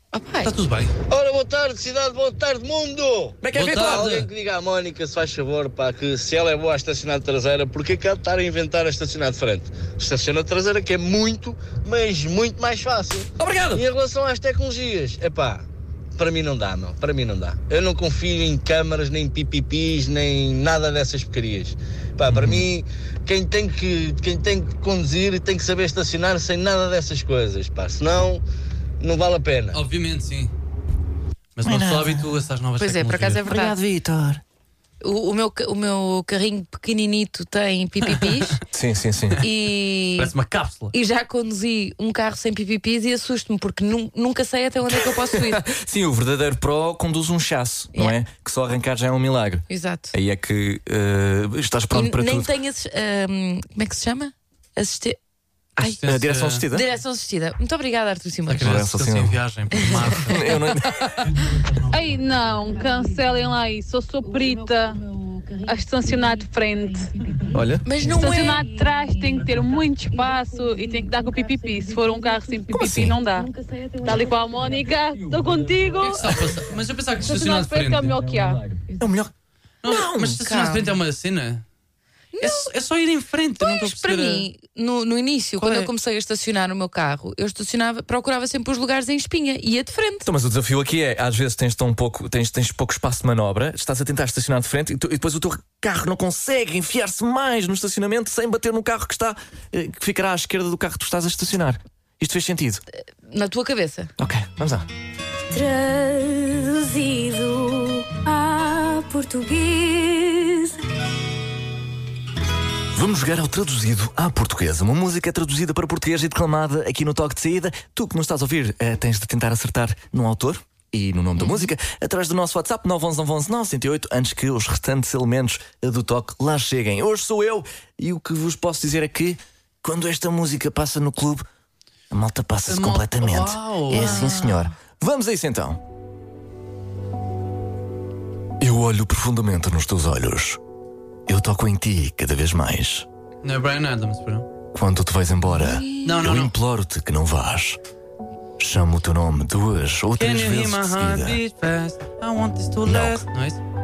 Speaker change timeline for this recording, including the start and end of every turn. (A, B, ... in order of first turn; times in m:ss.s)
0:00.1-0:00.5 A
0:00.4-0:00.9 B
0:01.1-0:15.7 C
0:03.4-0:04.2 D
0:03.5-0:04.3 B
0:13.4-0:13.8 D
0:16.2-0:28.4 C
0:22.3-0:22.7 D
0:29.0-0:29.8 C
0:29.7-0:30.5 B
0:31.6-0:33.4 B
0:31.6-0:32.4 D
0:32.8-0:33.8 A
0:33.5-0:34.4 D
0:35.0-0:38.6 A
0:38.0-0:38.6 B
0:38.7-0:39.4 D
0:39.4-0:40.3 A
0:40.2-0:40.9 B
0:40.9-0:45.6 A
0:44.9-0:52.5 D
0:49.7-0:50.1 A
0:51.9-0:55.2 A
0:55.8-0:56.9 D
0:55.8-0:56.6 B
0:56.7-0:58.7 A
0:58.5-1:00.6 B
0:58.6-0:59.4 D
0:59.8-1:00.2 A
1:00.2-1:01.3 D
1:01.9-1:05.0 E
1:05.6-1:07.1 E
1:07.5-1:07.9 D
1:07.8-1:08.6 A
1:08.1-1:16.3 E
1:12.8-1:13.2 D
1:16.0-1:18.2 B
1:17.2-1:18.5 E
1:19.0-1:19.3 D
1:19.8-1:21.6 B
1:19.8-1:20.4 D
1:20.4-1:21.0 A
1:22.4-1:22.7 A
1:22.4-1:24.5 B
1:23.6-1:30.3 A
1:25.6-1:25.9 B
1:30.2-1:42.8 D
1:43.3-1:44.1 A
1:44.2-1:44.9 D
1:45.6-1:50.8 F
1:52.9-2:11.5 D
2:01.4-2:01.7 A
2:12.1-2:15.8 D
2:12.7-2:14.6 B
2:14.0-2:14.4 A
2:18.6-2:20.6 D
2:21.3-2:23.1 D
2:23.4-2:24.5 B
2:24.7-2:27.8 D
2:25.6-2:26.1 A
2:26.0-2:26.5 B
2:28.6-2:31.4 D
2:30.2-2:33.6 B
2:32.8-2:33.2 D